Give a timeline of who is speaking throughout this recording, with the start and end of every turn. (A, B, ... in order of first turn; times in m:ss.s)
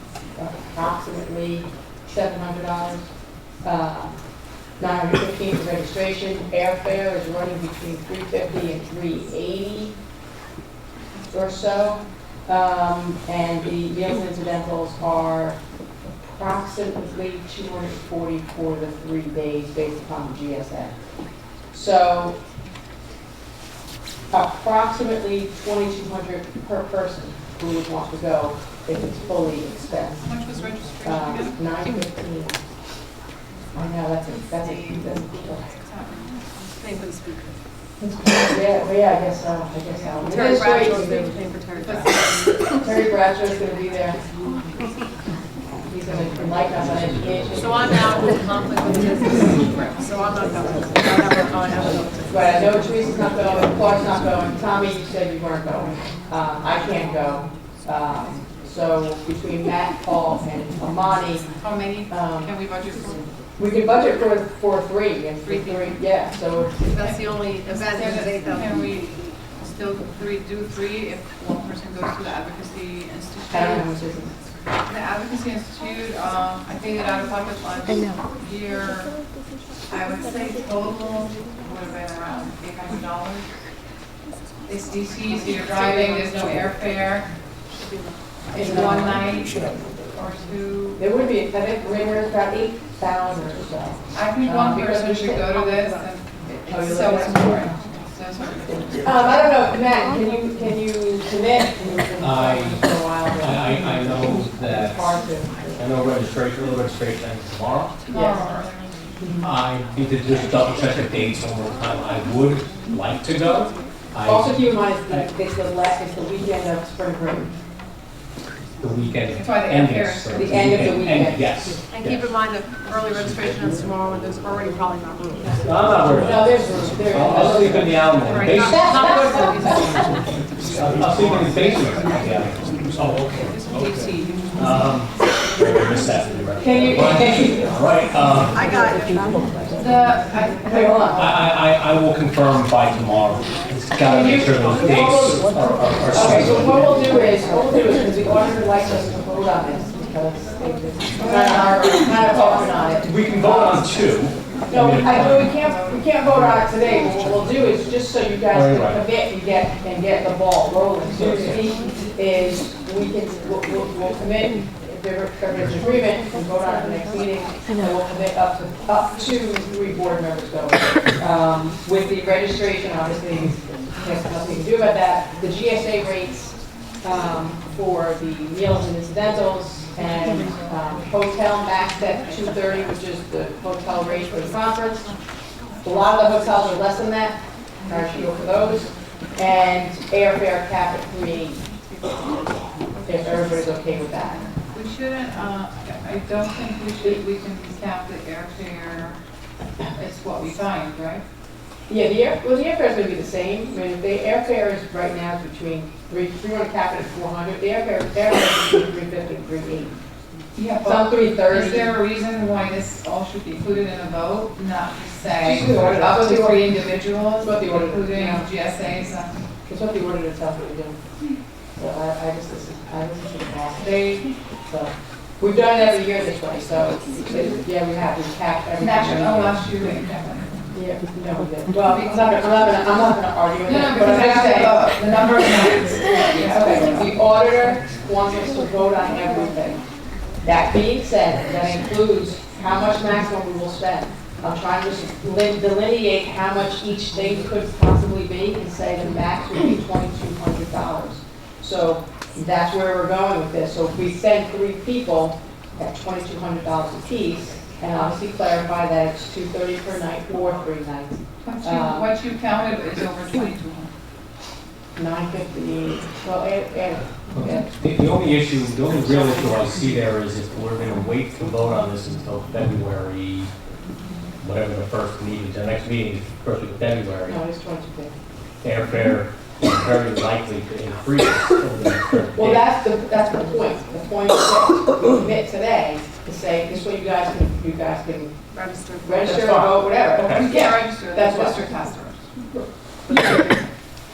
0:00.4-0:03.1 A
0:03.6-0:04.2 A
0:04.8-0:09.9 A
0:11.3-0:15.6 A
0:16.2-0:20.9 A
0:21.7-0:22.4 A
0:24.3-0:30.2 A
0:30.2-0:31.6 B
0:31.0-0:32.6 A
0:33.8-0:35.7 A
0:35.8-0:36.3 B
0:38.0-0:41.0 A
0:40.5-0:42.0 C
0:41.8-0:42.2 B
0:42.8-0:44.2 A
0:45.9-0:48.3 A
0:47.6-0:52.2 C
0:52.3-1:01.4 A
1:01.6-1:03.2 B
1:02.1-1:02.5 A
1:03.6-1:06.8 A
1:05.4-1:06.0 B
1:06.9-1:08.7 C
1:07.0-1:07.2 B
1:07.8-1:13.8 B
1:13.5-1:14.3 A
1:14.9-1:19.2 B
1:19.9-1:23.5 B
1:24.7-1:27.3 B
1:26.0-1:26.6 A
1:28.5-1:31.0 B
1:28.6-1:29.2 A
1:31.0-1:35.5 A
1:34.1-1:39.1 B
1:36.6-1:37.7 A
1:39.0-1:45.8 A
1:42.2-1:42.8 D
1:43.4-1:45.1 D
1:45.8-1:47.9 D
1:48.1-1:48.9 B
1:48.1-1:48.4 A
1:49.4-1:54.6 D
1:54.2-1:57.5 A
1:58.8-2:02.2 D
1:59.3-2:00.5 B
2:00.3-2:01.5 A
2:01.9-2:05.7 C
2:05.6-2:08.8 D
2:06.1-2:08.0 A
2:08.3-2:09.8 C
2:08.5-2:09.9 A
2:10.8-2:13.5 D
2:13.5-2:14.6 B
2:14.6-2:18.6 D
2:16.6-2:17.8 A
2:18.6-2:19.6 C
2:19.8-2:21.6 B
2:20.6-2:21.2 A
2:21.2-2:27.0 D
2:24.0-2:34.0 A
2:31.2-2:32.3 B
2:32.4-2:35.5 D
2:34.7-3:05.1 A
2:34.8-2:36.0 B
2:38.5-2:39.0 D
2:41.2-2:41.6 D
3:05.8-3:11.6 A
3:13.1-3:14.4 A
3:14.7-3:19.2 B
3:19.9-3:21.2 B
3:21.9-3:30.0 A
3:30.6-3:39.3 B
3:30.8-3:32.0 A
3:35.4-3:36.8 A
3:37.4-3:38.5 A
3:39.7-3:41.0 A
3:41.8-3:49.6 A
3:43.8-3:44.3 B
3:48.8-3:50.6 B
3:50.7-3:54.8 A
3:53.6-3:57.0 B
3:56.4-3:59.8 A
4:00.4-4:22.1 A
4:21.4-4:23.9 B
4:25.0-4:27.6 A
4:27.4-4:33.5 D
4:34.4-4:37.4 D
4:37.3-4:38.1 A
4:38.6-4:42.7 D
4:42.3-4:48.3 A
4:48.6-4:49.2 C
4:49.0-4:51.7 A
4:49.2-4:50.5 D
4:50.3-4:52.2 B
4:52.6-4:53.5 A